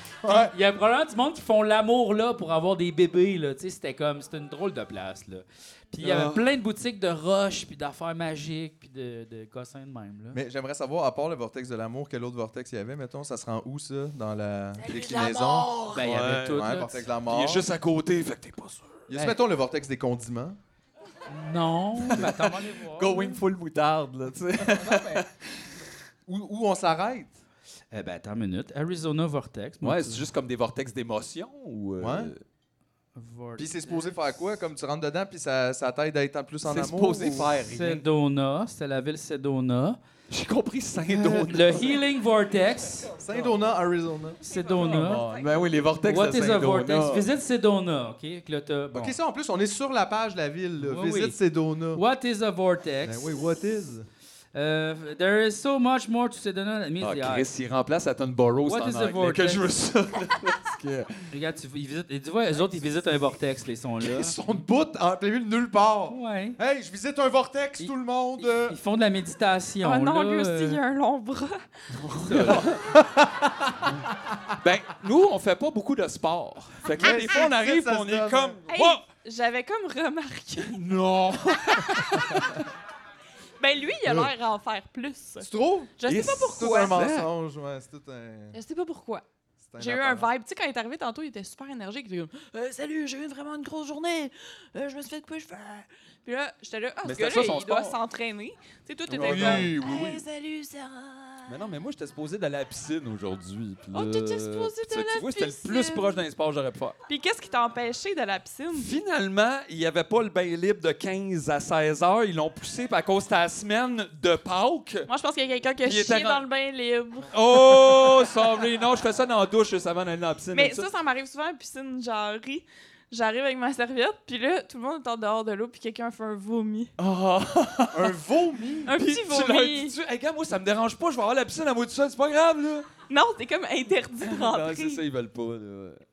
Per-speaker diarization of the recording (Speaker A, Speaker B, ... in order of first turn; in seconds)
Speaker A: 0.2-0.5, 10.3-17.7, 19.1-20.6, 24.6-25.2, 26.3-27.4, 32.0-32.3, 33.6-37.5, 41.1-41.5, 43.1-44.4, 48.9-52.0, 53.0-54.1, 64.1-68.8, 72.3-73.3, 77.0-78.7, 85.4-88.6, 89.6-90.3, 99.2-100.1, 127.9-128.9
Speaker B: 0.3-10.4, 15.9-17.0, 19.1-19.4, 21.3-23.4, 27.9-30.3, 33.2-34.2, 37.7-40.0, 41.5-43.1, 44.5-45.2, 46.1-49.1, 50.8-51.4, 51.9-53.4, 54.5-57.5, 58.7-59.6, 61.3-64.3, 66.1-66.6, 67.8-70.8, 72.3-72.6
Speaker C: 6.0-6.4, 14.9-16.7, 17.3-19.0, 22.1-25.4, 29.8-32.4, 36.6-38.0, 40.3-42.0, 43.3-43.5, 44.9-47.3, 57.0-61.2, 72.0-72.9, 74.6-79.0, 80.7-82.0, 86.0-87.3, 97.0-98.0, 99.1-100.2, 101.5-107.0, 108.7-115.1, 115.8-116.4, 117.3-120.9, 127.0-128.2, 128.9-132.9, 134.2-136.0
Speaker D: 44.5-45.4, 69.8-71.6, 78.7-80.8, 81.5-82.4, 83.6-85.5, 86.0-87.0, 88.5-89.2, 89.8-101.5, 103.9-106.2, 107.1-108.9, 115.1-117.3, 120.5-126.9, 128.9-129.9, 133.1-135.0